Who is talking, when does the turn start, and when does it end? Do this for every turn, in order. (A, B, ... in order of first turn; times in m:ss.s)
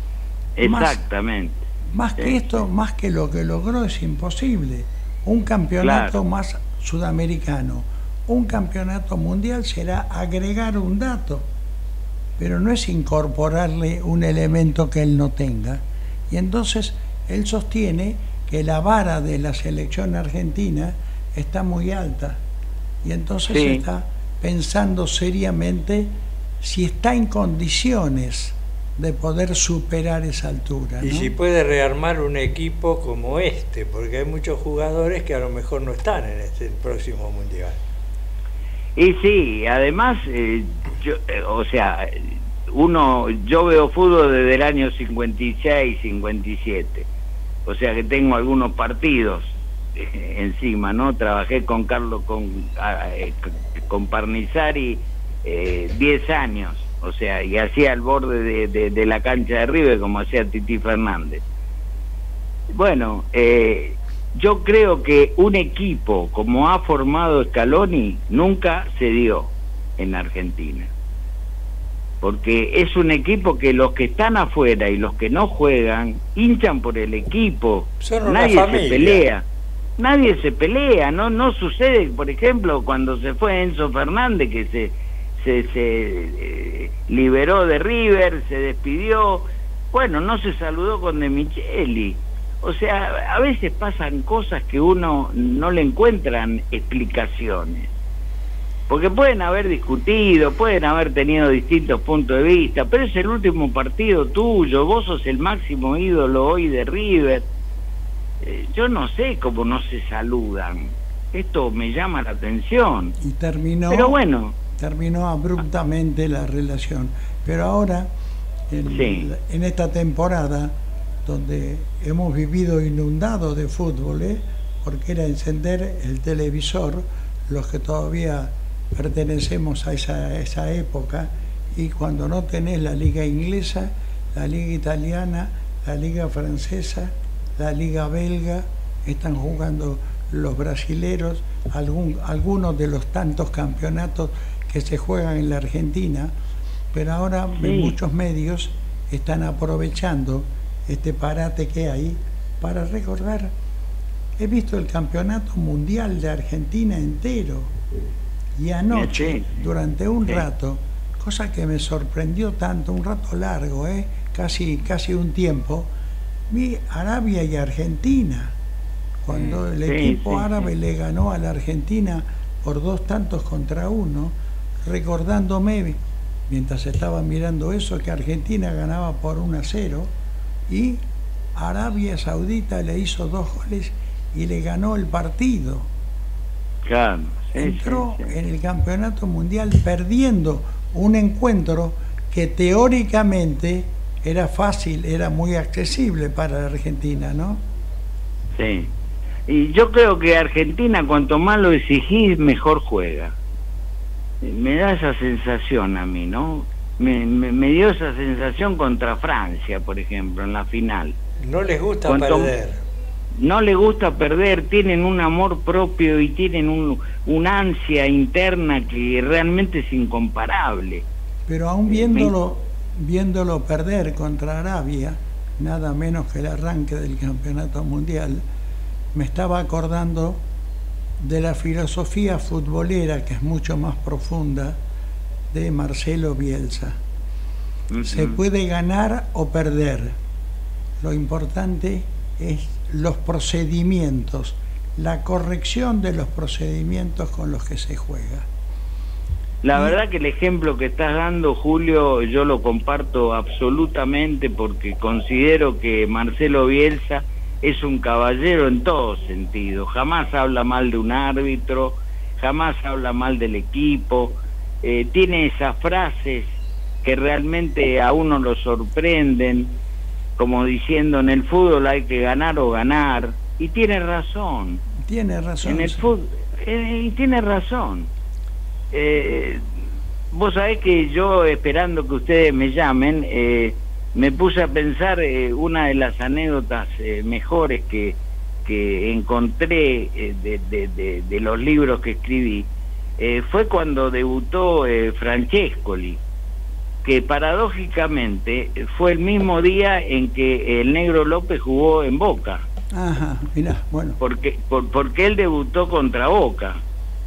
0:00.6-0:01.6 A
0:00.6-0:01.0 B
0:01.9-0:11.5 B
0:02.2-0:02.7 A
0:05.8-0:06.2 A
0:12.4-0:22.4 B
0:23.0-0:31.3 B
0:23.5-0:23.8 A
0:31.0-0:37.8 C
0:39.0-0:47.1 A
0:47.7-1:01.4 A
1:02.7-1:10.9 A
1:12.2-1:19.4 A
1:18.0-1:19.3 C
1:20.0-1:37.9 A
1:38.9-1:47.5 A
1:48.4-1:53.2 A
1:53.2-1:54.2 B
1:53.9-1:54.6 A
1:54.8-1:58.1 B
1:58.7-2:26.3 B
1:58.9-1:59.3 A
2:26.9-2:33.5 B
2:27.6-2:28.0 A
2:34.4-2:37.7 B
2:38.6-2:45.9 B
2:38.9-2:39.4 A
2:46.5-2:48.6 B
2:49.2-3:00.1 B
2:49.3-2:50.7 A
3:00.7-3:01.0 B
3:01.6-3:05.9 B
3:06.8-3:08.3 A
3:07.6-3:17.6 B
3:18.6-3:18.9 A
3:19.5-3:23.3 A
3:24.4-3:31.2 A
3:31.4-3:32.8 C
3:32.0-3:32.5 A
3:33.4-3:41.1 A
3:41.5-3:48.4 B
3:41.9-3:42.3 A
3:49.1-3:50.4 B
3:51.2-3:54.8 B
3:55.5-3:57.0 B
3:57.9-3:58.4 A
3:58.0-4:00.2 B
4:01.0-4:08.5 B
4:09.6-4:26.5 A
4:27.0-4:29.8 A
4:30.4-4:34.8 A
4:35.0-4:36.1 B
4:35.6-4:38.1 A
4:38.9-4:39.6 A
4:40.3-4:56.2 A
4:57.0-5:02.6 A
5:03.0-5:04.2 B
5:04.2-5:06.8 A